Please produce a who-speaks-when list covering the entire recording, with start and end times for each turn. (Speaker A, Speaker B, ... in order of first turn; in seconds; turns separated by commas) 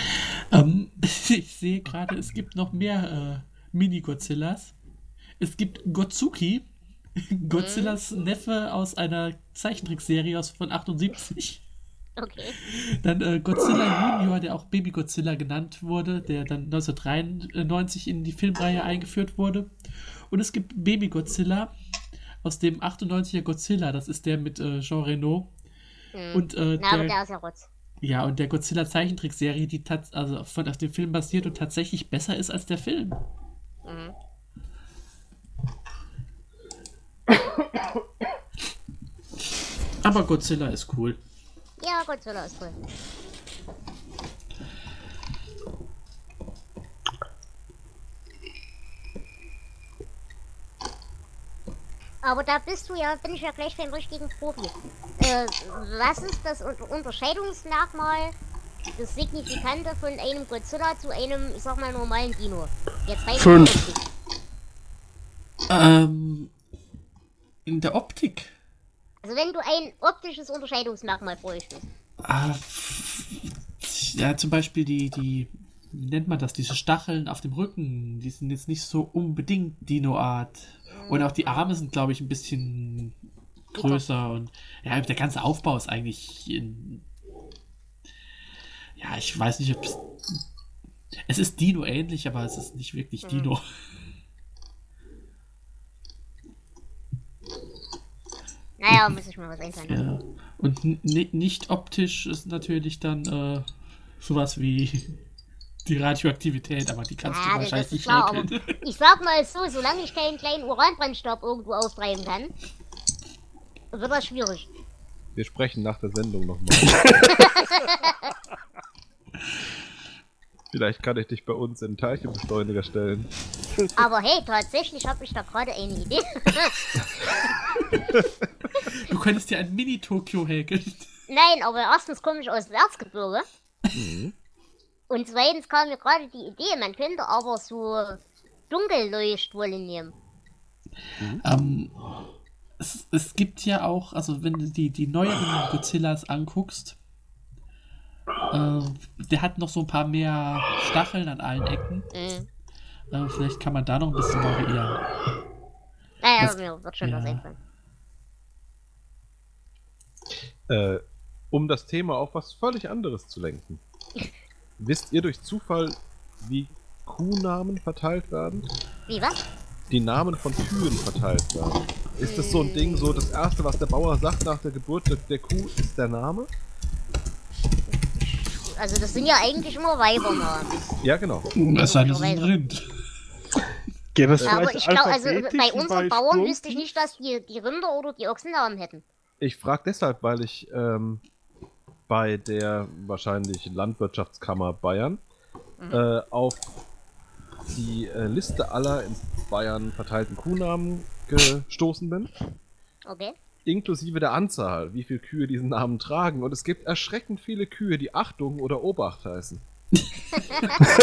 Speaker A: 0.5-4.7, Speaker A: 5.4-6.7, Speaker A: 7.2-11.6, Speaker B: 7.5-8.0, Speaker B: 12.2-12.6, Speaker A: 12.6-19.7, Speaker A: 20.3-21.7, Speaker A: 22.4-25.5, Speaker B: 26.1-27.7, Speaker A: 26.3-27.1, Speaker A: 28.0-33.2, Speaker B: 33.8-34.1, Speaker A: 40.0-41.2, Speaker B: 41.8-42.8, Speaker B: 52.2-58.3, Speaker B: 59.0-64.0, Speaker C: 63.4-63.9, Speaker A: 65.7-66.5, Speaker A: 67.6-68.5, Speaker B: 69.2-71.9, Speaker A: 72.2-83.2, Speaker B: 81.0-81.7, Speaker B: 83.7-84.0, Speaker A: 83.7-87.0, Speaker A: 89.0-90.4, Speaker A: 91.3-93.6, Speaker B: 93.2-93.5, Speaker B: 98.8-100.0, Speaker A: 99.9-103.7, Speaker A: 104.2-105.2, Speaker A: 105.8-108.8, Speaker B: 107.2-112.5, Speaker B: 113.9-114.7, Speaker D: 115.3-117.2, Speaker C: 116.9-117.3, Speaker B: 117.3-118.3, Speaker D: 120.7-123.3, Speaker B: 124.0-126.8, Speaker A: 128.9-131.1, Speaker B: 131.3-133.4, Speaker D: 133.9-134.3, Speaker B: 135.1-140.1, Speaker A: 141.4-141.9, Speaker A: 142.8-147.0, Speaker A: 148.5-152.1, Speaker B: 152.1-152.5, Speaker A: 153.1-155.0, Speaker B: 156.2-157.6, Speaker A: 156.4-157.4, Speaker D: 160.7-163.8, Speaker D: 164.8-168.7, Speaker B: 169.1-169.4, Speaker D: 169.9-176.5, Speaker B: 172.2-173.1, Speaker B: 178.0-180.8, Speaker D: 181.0-181.5, Speaker A: 181.6-182.9, Speaker B: 181.8-182.5, Speaker C: 184.1-186.9, Speaker B: 184.4-189.0, Speaker D: 189.4-191.2, Speaker D: 192.1-195.2, Speaker D: 195.9-196.7, Speaker D: 197.7-202.3, Speaker B: 203.0-203.3, Speaker D: 203.6-209.6, Speaker A: 210.0-210.8